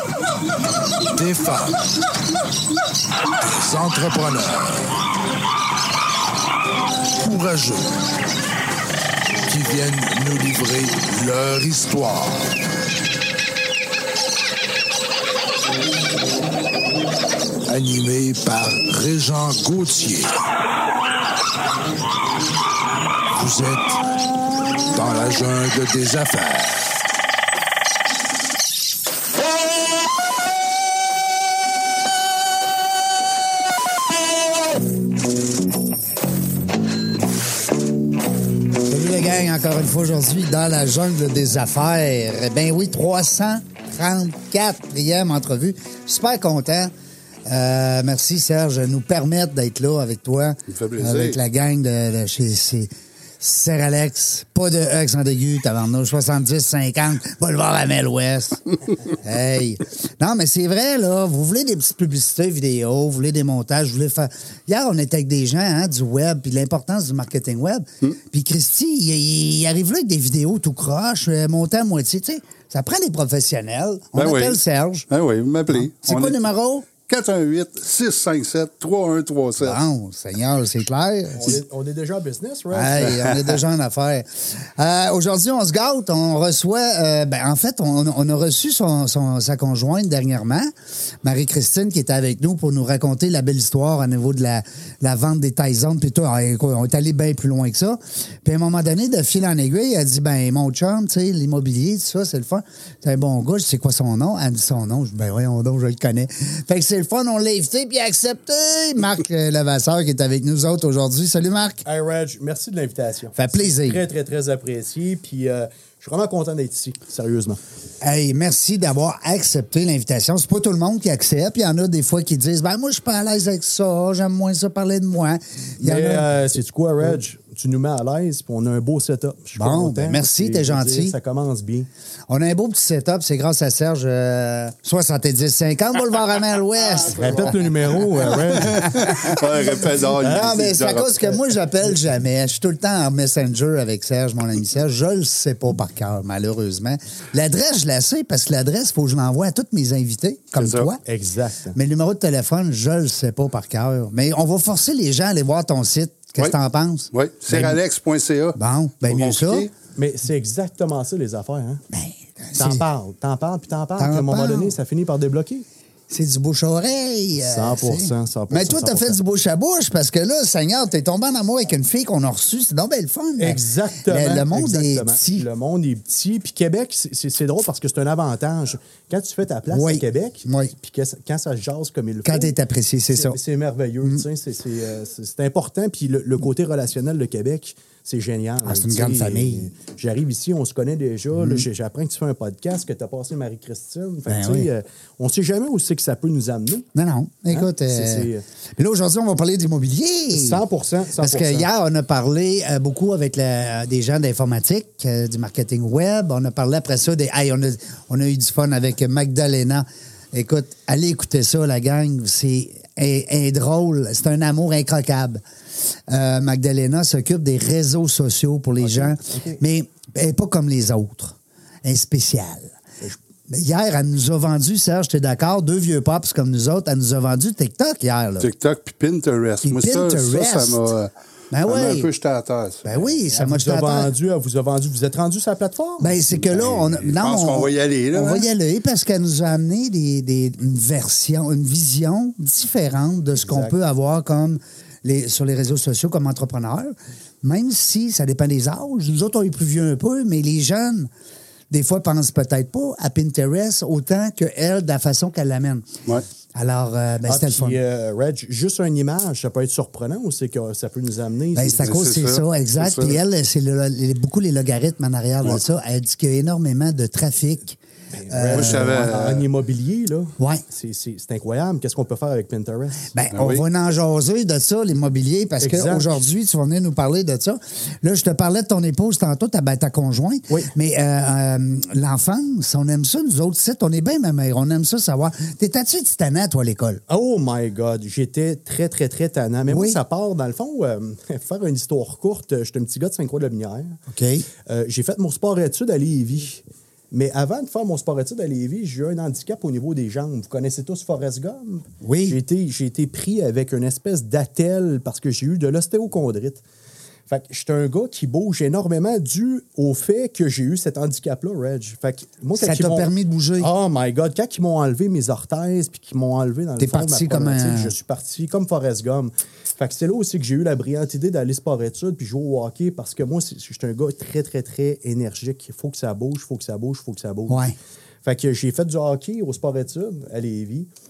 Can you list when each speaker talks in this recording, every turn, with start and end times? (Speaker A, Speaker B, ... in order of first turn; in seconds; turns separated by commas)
Speaker A: 1.1-1.9, Speaker A: 3.6-4.9, Speaker A: 7.2-8.0, Speaker A: 9.4-12.5, Speaker A: 17.7-20.4, Speaker A: 23.3-24.0, Speaker A: 24.9-27.0, Speaker B: 38.8-46.9, Speaker B: 47.5-75.1, Speaker C: 50.7-51.4, Speaker C: 74.2-76.4, Speaker B: 75.7-76.9, Speaker C: 77.0-79.8, Speaker B: 79.6-81.6, Speaker D: 81.3-83.2, Speaker B: 82.7-90.7, Speaker C: 83.1-83.4, Speaker B: 91.2-111.8, Speaker D: 111.8-117.6, Speaker B: 113.4-114.0, Speaker B: 118.0-126.3, Speaker D: 125.8-131.9, Speaker B: 129.6-131.2, Speaker B: 132.3-151.0, Speaker C: 136.9-137.7, Speaker D: 137.1-139.4, Speaker C: 138.3-141.2, Speaker C: 150.6-150.9, Speaker D: 151.0-151.8, Speaker B: 151.8-157.8, Speaker C: 157.1-158.6, Speaker B: 158.6-159.7, Speaker C: 159.1-159.7, Speaker D: 159.8-161.8, Speaker B: 161.9-162.8, Speaker D: 162.6-165.7, Speaker B: 164.0-164.8, Speaker B: 166.1-175.5, Speaker D: 167.4-169.2, Speaker D: 173.4-182.6, Speaker B: 179.7-180.7, Speaker B: 182.2-183.4, Speaker D: 183.1-196.9, Speaker B: 188.7-189.7, Speaker B: 191.4-191.7, Speaker B: 194.3-194.7, Speaker B: 196.9-200.6, Speaker D: 197.5-198.4, Speaker D: 200.3-201.7, Speaker B: 201.1-215.4, Speaker B: 216.1-222.7, Speaker D: 218.8-219.6, Speaker B: 223.5-228.5, Speaker C: 228.4-231.1, Speaker B: 229.6-230.8, Speaker B: 231.5-232.1, Speaker C: 231.6-233.1, Speaker B: 232.8-234.1, Speaker D: 233.3-236.1, Speaker B: 236.0-251.1, Speaker C: 236.5-238.5, Speaker D: 243.4-243.8, Speaker B: 251.7-255.9, Speaker B: 256.5-257.8, Speaker D: 257.3-261.9, Speaker B: 261.6-267.8, Speaker C: 261.8-263.2, Speaker D: 268.1-273.1, Speaker B: 268.3-269.2, Speaker C: 268.5-269.4, Speaker B: 270.4-270.6, Speaker B: 273.1-287.0, Speaker C: 273.3-273.6, Speaker D: 275.6-276.2, Speaker D: 287.1-294.0, Speaker B: 289.7-290.0, Speaker B: 294.1-294.5, Speaker D: 294.7-306.6, Speaker B: 302.0-302.4, Speaker D: 307.3-327.7, Speaker B: 312.6-313.7, Speaker B: 316.8-317.9, Speaker B: 327.5-327.8, Speaker D: 328.2-330.9